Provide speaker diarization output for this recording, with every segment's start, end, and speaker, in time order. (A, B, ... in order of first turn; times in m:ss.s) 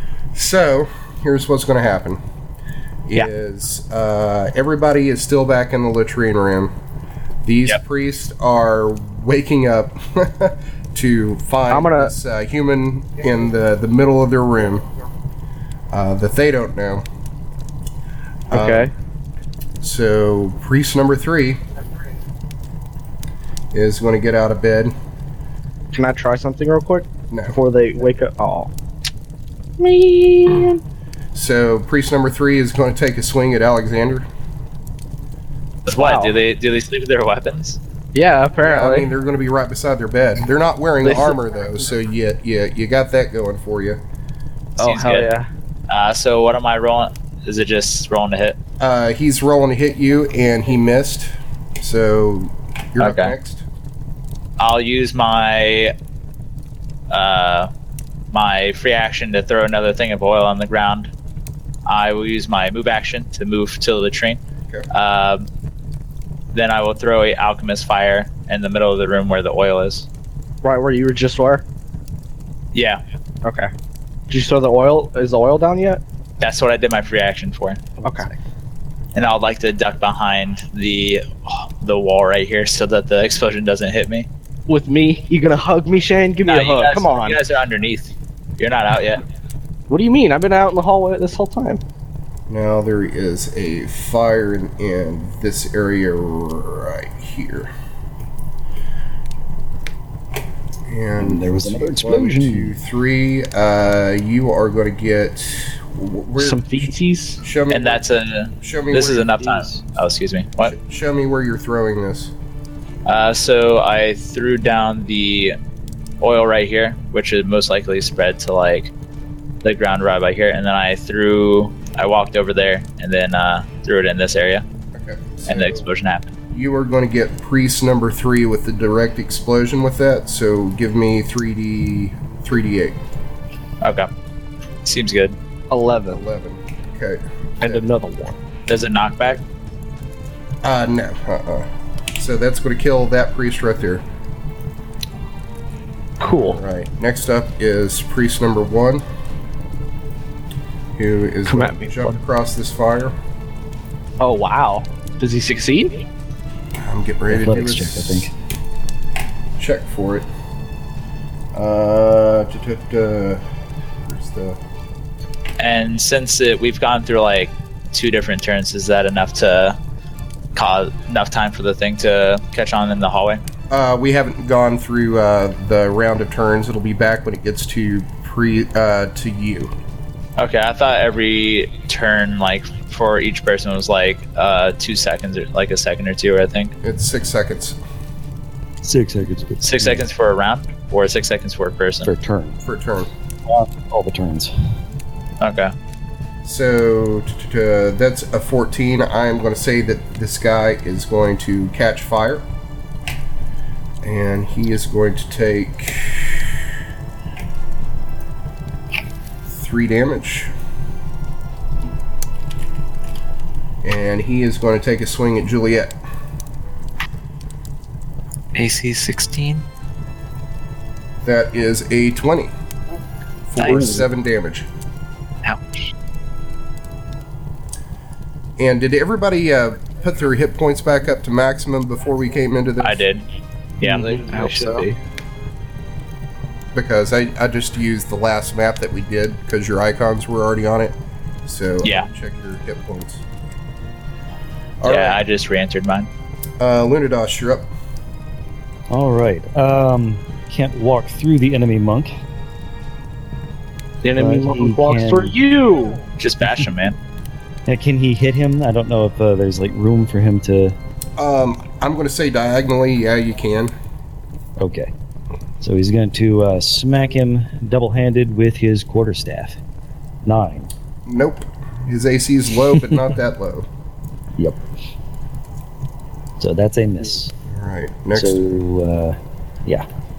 0:00.3-0:02.2 A
0:03.1-0:06.7 A
0:07.4-0:14.8 A
0:11.7-0:12.1 B
0:15.9-0:17.0 A
0:18.5-0:18.9 A
0:18.5-0:18.9 B
0:19.8-0:21.6 A
0:23.7-0:25.0 A
0:25.9-0:28.7 B
0:27.3-0:27.6 A
0:29.8-0:30.8 B
0:31.3-0:34.3 A
0:35.9-0:37.8 C
0:36.0-0:36.4 B
0:38.1-0:39.1 B
0:38.6-0:44.0 A
0:41.0-0:41.4 B
0:44.8-0:45.3 C
0:44.8-0:45.5 B
0:45.9-0:48.6 C
0:48.8-0:53.6 A
0:53.0-0:53.3 C
0:54.6-0:55.9 C
0:57.1-0:57.7 C
0:58.3-1:01.1 C
1:01.9-1:05.5 C
1:06.5-1:10.1 C
1:10.6-1:11.6 B
1:12.7-1:13.0 C
1:13.4-1:13.7 B
1:14.3-1:16.0 B
1:16.4-1:17.8 C
1:18.0-1:18.3 B
1:19.1-1:24.3 C
1:24.7-1:27.4 B
1:26.4-1:29.2 C
1:29.9-1:31.8 B
1:32.5-1:37.7 A
1:40.9-1:46.9 A
1:41.2-1:42.7 D
1:46.4-1:47.4 B
1:47.4-1:48.0 A
1:47.7-1:50.7 C
1:48.6-1:49.6 A
1:50.6-1:52.3 A
1:53.0-1:55.6 C
1:56.2-1:58.9 C
1:59.6-2:04.6 C
2:04.9-2:05.9 A
2:05.4-2:06.3 C
2:06.5-2:13.0 A
2:13.8-2:14.1 C
2:14.8-2:15.4 C
2:15.7-2:16.2 B
2:16.1-2:17.8 A
2:17.6-2:18.4 B
2:18.7-2:19.4 C
2:20.6-2:24.0 A
2:26.2-2:26.6 B
2:26.3-2:29.0 A
2:31.0-2:33.2 A
2:31.5-2:32.2 B
2:34.2-2:36.0 B
2:36.8-2:38.3 A
2:37.3-2:38.3 D
2:39.6-2:40.3 A
2:41.5-2:43.4 A
2:44.0-2:44.6 A
2:45.6-2:49.8 C
2:50.6-2:53.4 C
2:53.7-2:59.7 A
3:00.4-3:06.7 C
3:06.8-3:07.8 A
3:08.8-3:10.0 D
3:09.6-3:12.1 C
3:12.0-3:12.6 D
3:12.6-3:13.1 A
3:13.5-3:14.5 D
3:15.4-3:15.7 C
3:16.4-3:22.4 A
3:24.0-3:26.6 A
3:29.5-3:30.5 A
3:33.8-3:36.0 A
3:38.5-3:39.6 E
3:41.2-3:42.5 A
3:43.5-3:44.7 A
3:43.6-3:44.0 E
3:45.4-3:45.9 E
3:48.6-3:53.0 A
3:52.8-3:53.2 C
3:53.8-3:54.2 C
3:53.8-3:55.0 B
3:54.3-3:54.8 E
3:56.7-4:03.2 A
4:01.8-4:02.1 C
4:04.8-4:05.2 A
4:04.8-4:06.1 C
4:06.6-4:07.7 A
4:08.9-4:12.1 D
4:14.0-4:16.0 B
4:14.2-4:15.3 D
4:16.2-4:17.0 C
4:17.7-4:20.8 D
4:21.2-4:23.7 A
4:24.6-4:24.9 D
4:25.6-4:29.6 D
4:30.2-4:30.7 D
4:31.1-4:33.7 A
4:36.4-4:37.3 D
4:37.5-4:38.4 A
4:38.2-4:39.9 D